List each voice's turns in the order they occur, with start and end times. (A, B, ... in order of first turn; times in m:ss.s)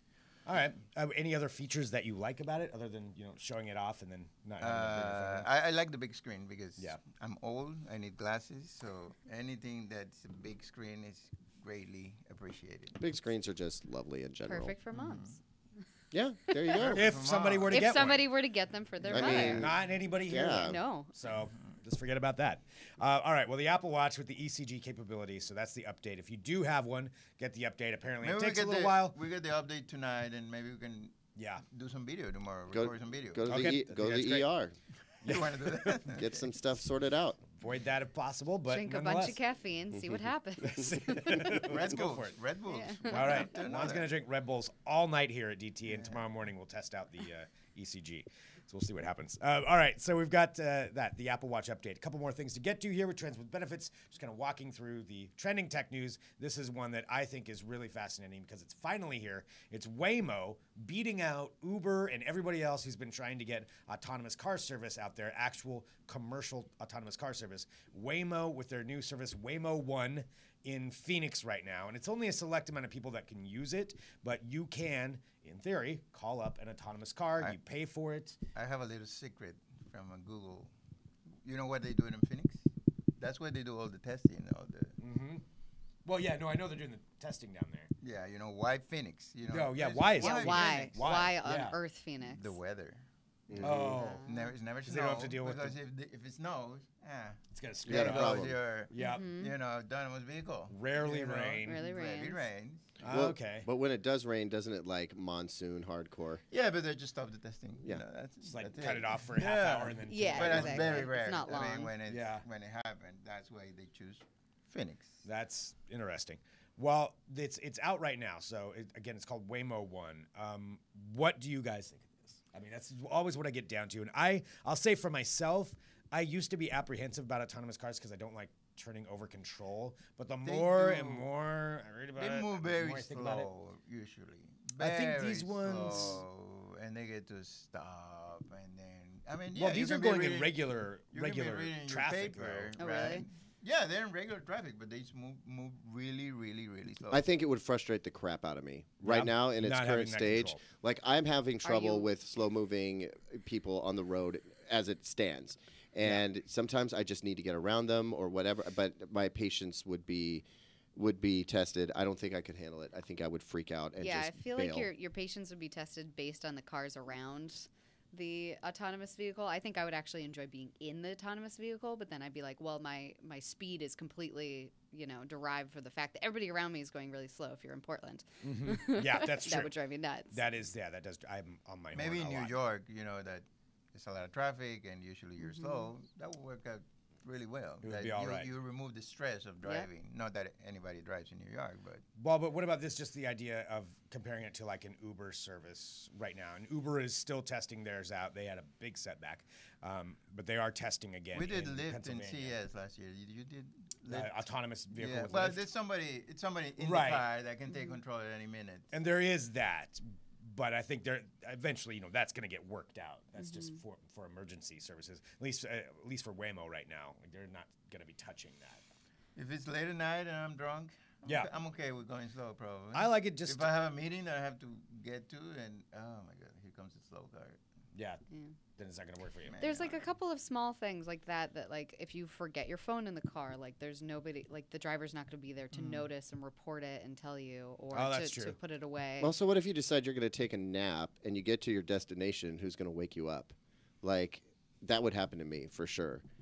0:00.5-0:05.5 A
0:04.6-0:13.0 B
0:13.0-0:14.7 C
0:14.5-0:15.4 D
0:14.9-0:15.4 B
0:16.1-0:17.2 C
0:16.5-0:16.8 D
0:16.7-0:18.3 A
0:16.9-0:18.0 B
0:17.7-0:19.7 D
0:19.1-0:19.8 C
0:19.1-0:29.2 A
0:19.2-0:19.6 B
0:20.3-0:20.8 C
0:20.5-0:21.1 D
0:28.2-0:33.8 B
0:31.4-0:31.6 A
0:32.7-0:34.8 C
0:33.5-0:34.5 A
0:35.2-0:36.1 A
0:35.2-0:36.5 B
0:36.1-0:37.4 C
0:37.6-0:39.4 A
0:38.7-0:41.7 D
0:40.6-0:42.4 A
0:41.6-0:44.1 B
0:42.7-0:43.5 D
0:43.0-1:18.4 A
0:45.9-0:46.2 B
1:18.6-1:20.7 B
1:21.4-1:22.7 B
1:23.2-1:25.0 B
1:25.0-1:25.4 A
1:26.0-1:27.9 A
1:28.0-1:31.2 B
1:29.5-1:31.8 A
1:30.2-1:32.6 D
1:32.2-1:43.0 B
1:33.5-1:34.0 C
1:33.6-1:34.3 A
1:33.9-1:34.5 D
1:34.8-1:35.8 A
1:37.5-1:39.3 A
1:37.9-1:38.5 C
1:39.0-1:39.5 D
1:40.7-1:41.9 A
1:41.6-1:42.4 D
1:43.0-1:43.7 A
1:43.1-1:46.4 C
1:46.5-1:55.2 B
1:48.4-1:51.2 A
1:50.1-1:51.9 D
1:52.1-1:52.4 A
1:55.2-2:13.5 A
2:10.4-2:11.3 B
2:12.2-2:27.2 B
2:14.8-2:16.2 A
2:15.9-2:16.2 D
2:19.6-2:22.8 A
2:22.8-2:23.3 D
2:27.1-2:44.9 C
2:29.0-2:30.6 A
2:31.6-2:32.1 D
2:44.0-3:00.4 D
2:58.4-2:59.7 A
3:00.3-3:02.5 A
3:01.9-3:12.0 B
3:05.4-3:05.9 D
3:07.8-3:08.5 A
3:12.2-3:22.6 A
3:21.4-3:24.4 B
3:24.1-3:25.6 A
3:24.9-3:28.9 B
3:26.8-3:27.3 A
3:28.9-3:38.8 A
3:39.4-3:47.6 B
3:41.3-3:41.5 A
3:42.9-3:43.7 A
3:48.0-3:48.2 A
3:48.8-3:49.9 A
3:49.5-3:50.0 B
3:49.6-3:59.3 D
3:55.7-3:56.1 B
3:57.9-3:58.6 A
3:59.2-4:06.2 C